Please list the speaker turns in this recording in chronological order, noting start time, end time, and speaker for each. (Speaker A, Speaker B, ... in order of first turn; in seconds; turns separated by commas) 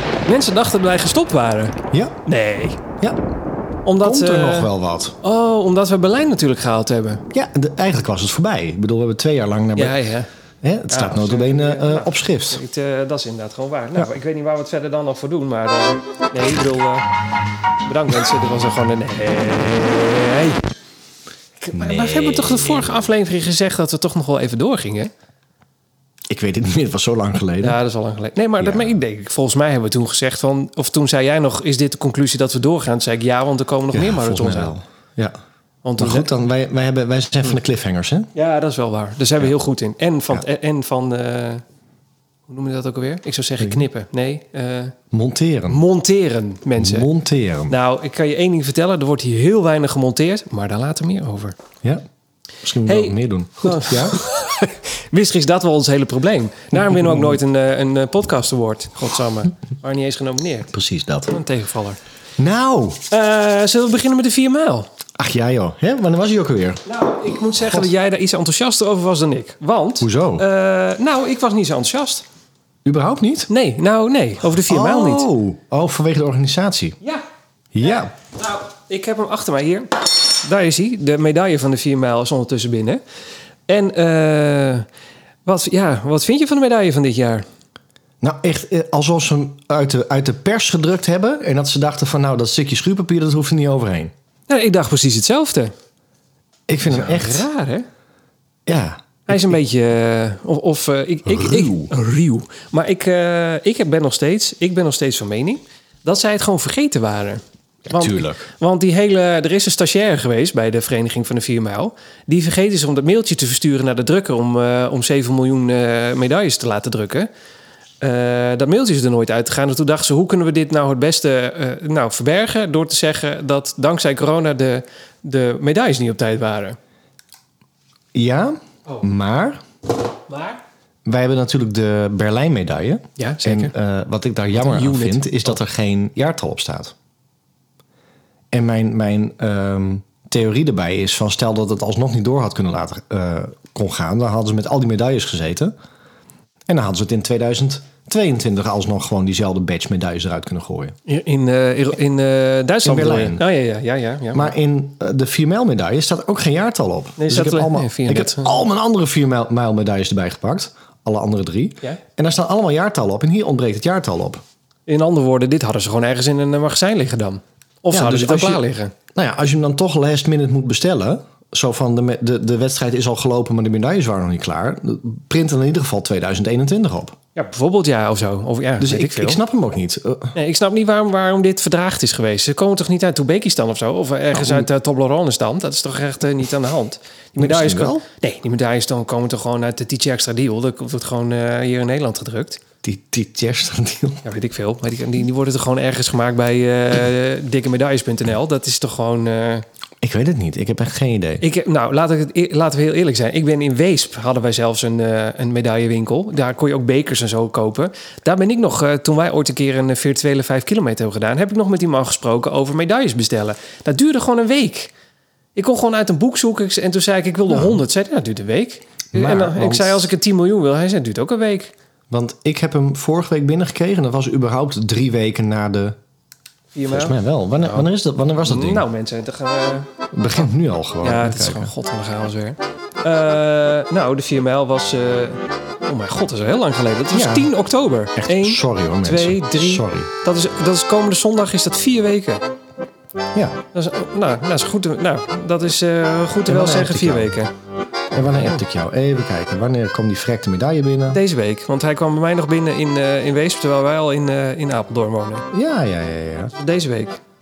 Speaker A: 0.2-2.8, Speaker A: 3.9-4.7, Speaker B: 4.0-5.1, Speaker A: 5.2-7.2, Speaker B: 7.3-9.9, Speaker A: 9.7-10.3, Speaker B: 10.6-12.6, Speaker A: 10.9-17.1, Speaker A: 17.8-20.6, Speaker A: 21.6-25.1, Speaker B: 21.7-23.1, Speaker B: 26.3-27.8, Speaker A: 27.6-34.7, Speaker B: 28.6-28.9, Speaker B: 33.9-35.4, Speaker A: 35.8-36.3, Speaker B: 36.0-38.3, Speaker A: 38.3-41.6, Speaker A: 42.5-44.9, Speaker B: 45.1-45.8, Speaker A: 45.7-47.1, Speaker B: 46.8-47.7, Speaker A: 47.7-51.5, Speaker B: 52.6-54.2, Speaker A: 52.8-60.7, Speaker B: 56.9-57.3, Speaker B: 60.7-61.3, Speaker A: 61.3-62.0, Speaker B: 62.4-63.0, Speaker A: 63.1-64.8, Speaker B: 65.2-66.8, Speaker A: 66.8-72.2, Speaker B: 67.6-67.9, Speaker B: 70.0-70.4, Speaker B: 72.8-73.5, Speaker A: 73.5-75.3, Speaker B: 74.7-77.0, Speaker B: 77.7-78.1, Speaker A: 77.8-83.0, Speaker A: 83.7-84.8, Speaker A: 85.5-87.4, Speaker B: 88.2-94.1, Speaker A: 94.5-95.7, Speaker B: 96.7-97.5, Speaker A: 96.8-97.8, Speaker B: 98.7-99.6, Speaker A: 99.3-117.3, Speaker B: 101.3-101.9, Speaker B: 107.9-108.5, Speaker A: 118.0-126.8, Speaker B: 128.1-129.6, Speaker A: 130.3-130.6, Speaker B: 131.0-136.9, Speaker A: 133.2-133.7, Speaker A: 134.6-135.6, Speaker B: 138.5-145.7, Speaker B: 146.7-150.9, Speaker A: 151.1-154.5, Speaker B: 152.8-153.4, Speaker B: 154.3-164.4, Speaker A: 157.2-158.6, Speaker A: 164.9-168.9, Speaker B: 167.9-177.2, Speaker A: 177.3-179.4, Speaker B: 178.8-180.3, Speaker A: 180.3-192.6, Speaker B: 184.3-184.7, Speaker B: 187.4-188.0, Speaker B: 192.8-194.2, Speaker A: 194.2-199.6, Speaker B: 200.0-201.4, Speaker A: 201.4-214.9, Speaker A: 215.5-221.7, Speaker B: 217.5-217.8, Speaker B: 219.1-220.1, Speaker B: 222.1-226.0, Speaker A: 226.7-227.9, Speaker B: 226.9-228.8, Speaker A: 228.4-229.9, Speaker B: 230.1-231.7, Speaker A: 231.0-242.4, Speaker B: 237.1-237.5, Speaker B: 238.2-240.1, Speaker B: 243.3-243.6, Speaker A: 243.7-247.5, Speaker B: 246.5-247.3, Speaker B: 248.1-251.2, Speaker A: 248.2-248.6, Speaker A: 251.1-255.4, Speaker B: 255.5-256.5, Speaker A: 256.6-257.2